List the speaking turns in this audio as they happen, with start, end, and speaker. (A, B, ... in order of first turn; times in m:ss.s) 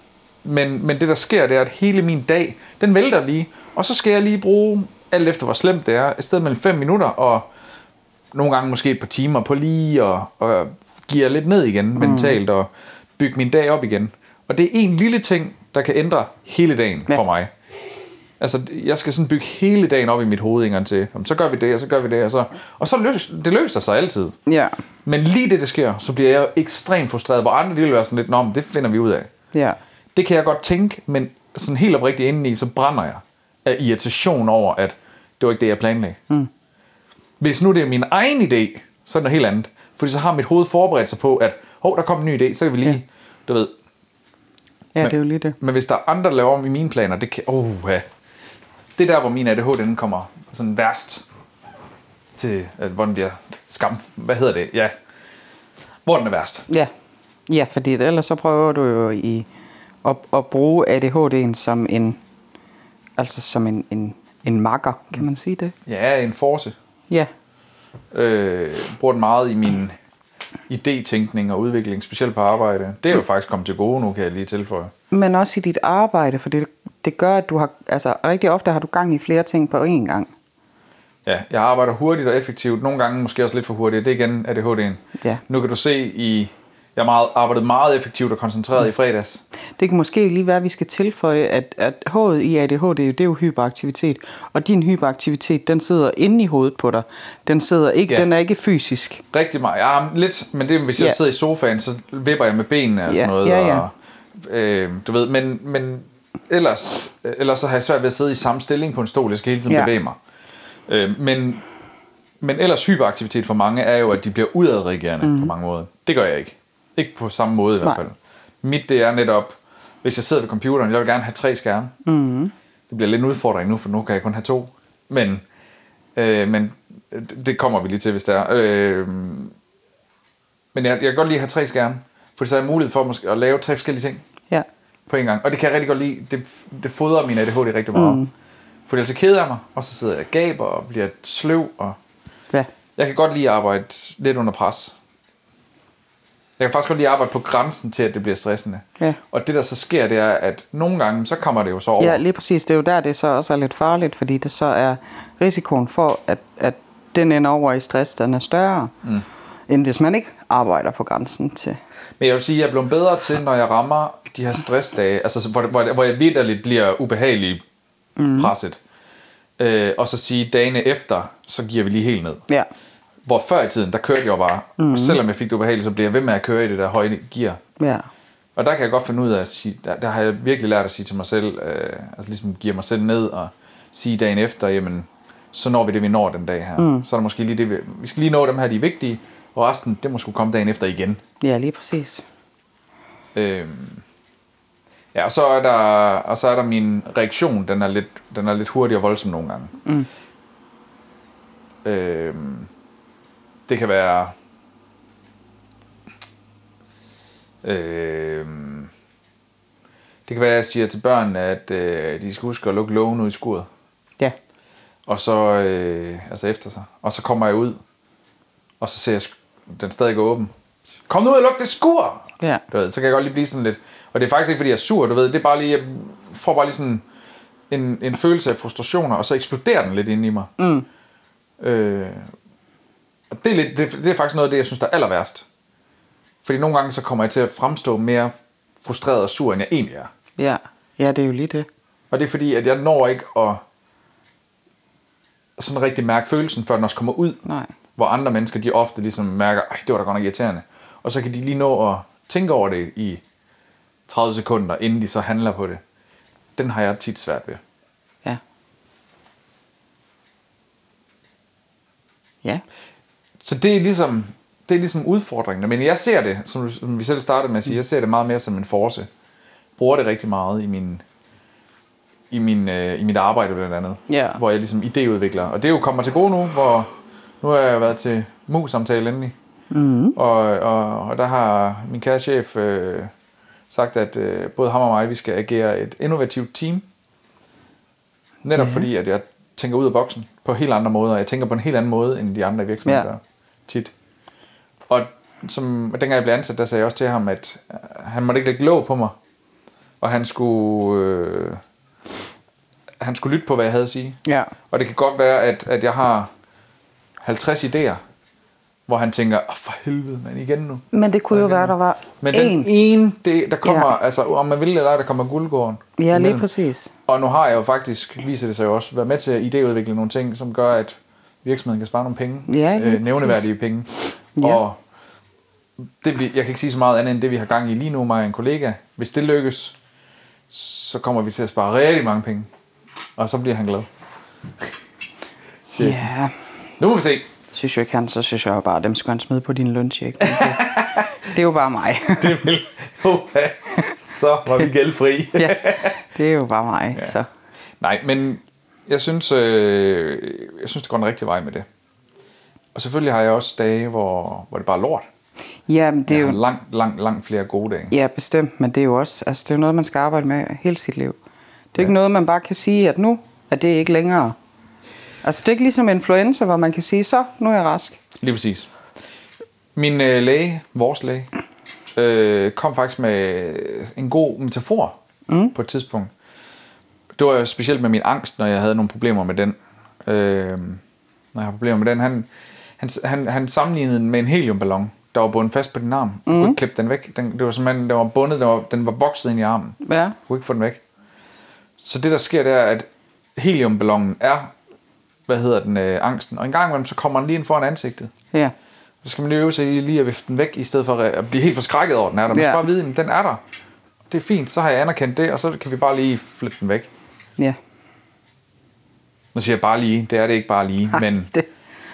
0:00.4-0:07.5 A
0:08.3-0:17.5 A
0:12.0-0:12.4 B
0:18.4-0:24.4 A
0:24.5-0:24.8 B
0:25.0-0:29.3 A
0:29.5-0:29.8 B
0:30.2-0:36.2 A
0:37.4-0:43.7 A
0:45.0-0:45.6 B
0:45.0-0:48.1 A
0:49.0-0:51.2 A
0:52.4-0:55.0 A
0:56.0-0:56.7 A
0:57.5-0:59.5 B
1:00.0-1:02.2 B
1:03.2-1:05.8 B
1:05.9-1:06.8 A
1:08.1-1:10.0 A
1:10.7-1:14.9 A
1:15.1-1:20.3 B
1:21.2-1:29.4 A
1:29.8-1:39.2 B
1:39.3-1:50.2 A
1:43.1-1:43.8 B
1:50.9-1:51.6 A
1:52.4-2:01.9 A
1:55.2-1:55.5 B
2:02.0-2:02.5 B
2:02.9-2:05.4 A
2:06.2-2:09.5 A
2:10.7-2:14.2 A
2:15.1-2:18.2 A
2:17.9-2:18.3 B
2:18.9-2:22.0 A
2:23.0-2:25.0 A
2:26.6-2:32.2 A
2:32.0-2:38.9 B
2:39.7-2:41.8 B
2:42.2-2:47.6 A
2:48.2-2:48.5 B
2:48.4-2:48.8 A
2:49.6-2:52.4 A
2:53.2-2:57.6 A
2:54.8-2:55.2 B
2:57.8-2:58.1 B
2:58.6-3:11.2 A
3:06.8-3:07.1 B
3:11.4-3:12.2 B
3:13.4-3:14.0 A
3:15.1-3:19.8 A
3:21.8-3:22.7 A
3:23.7-3:24.4 A
3:27.6-3:28.9 A
3:30.3-3:33.7 A
3:35.1-3:37.8 A
3:38.8-3:40.5 A
3:41.1-3:47.0 A
3:47.7-3:50.5 A
3:50.6-3:50.9 B
3:51.6-3:52.3 A
3:53.3-3:55.4 A
3:56.4-4:00.1 A
4:00.4-4:01.7 B
4:02.1-4:03.6 A
4:05.6-4:07.4 A
4:07.4-4:07.7 B
4:08.0-4:13.2 A
4:14.1-4:15.8 A
4:16.6-4:17.6 A
4:23.4-4:29.1 A
4:29.8-4:31.0 A
4:32.3-4:36.9 A
4:34.1-4:34.4 B
4:37.4-4:39.4 A
4:39.7-4:40.2 B
4:40.2-4:43.1 A
4:43.7-4:46.9 A
4:48.4-4:53.9 A
4:48.6-4:48.9 B
4:54.9-4:59.2 A
5:00.0-5:01.6 A
5:03.0-5:06.3 A
5:04.3-5:04.5 B
5:07.2-5:08.0 A
5:08.9-5:16.5 A
5:10.9-5:12.7 B
5:13.6-5:13.9 B
5:16.0-5:16.9 B
5:17.1-5:24.8 A
5:22.5-5:23.4 B
5:26.0-5:29.8 A
5:30.5-5:32.5 A
5:33.2-5:33.9 A
5:35.7-5:36.1 A
5:35.8-5:36.4 B
5:36.8-5:37.3 A
5:37.5-5:42.4 B
5:40.2-5:41.1 A
5:42.1-5:46.0 A
5:45.4-5:47.3 B
5:47.8-5:51.7 A
5:52.7-5:55.1 A
5:55.7-5:56.4 B
5:56.1-5:57.9 A
5:57.9-6:01.2 B
6:01.7-6:04.4 B
6:05.2-6:08.0 B
6:08.2-6:08.7 A
6:09.8-6:11.3 A
6:12.0-6:15.0 A
6:15.3-6:15.6 B
6:15.5-6:16.1 A
6:17.2-6:20.8 A
6:21.3-6:22.3 A
6:22.8-6:30.8 A
6:26.3-6:26.6 B
6:29.8-6:30.2 B
6:31.8-6:34.5 A
6:35.3-6:38.1 A
6:39.0-6:43.4 A
6:42.3-6:42.6 B
6:44.1-6:46.9 A
6:49.3-6:51.3 A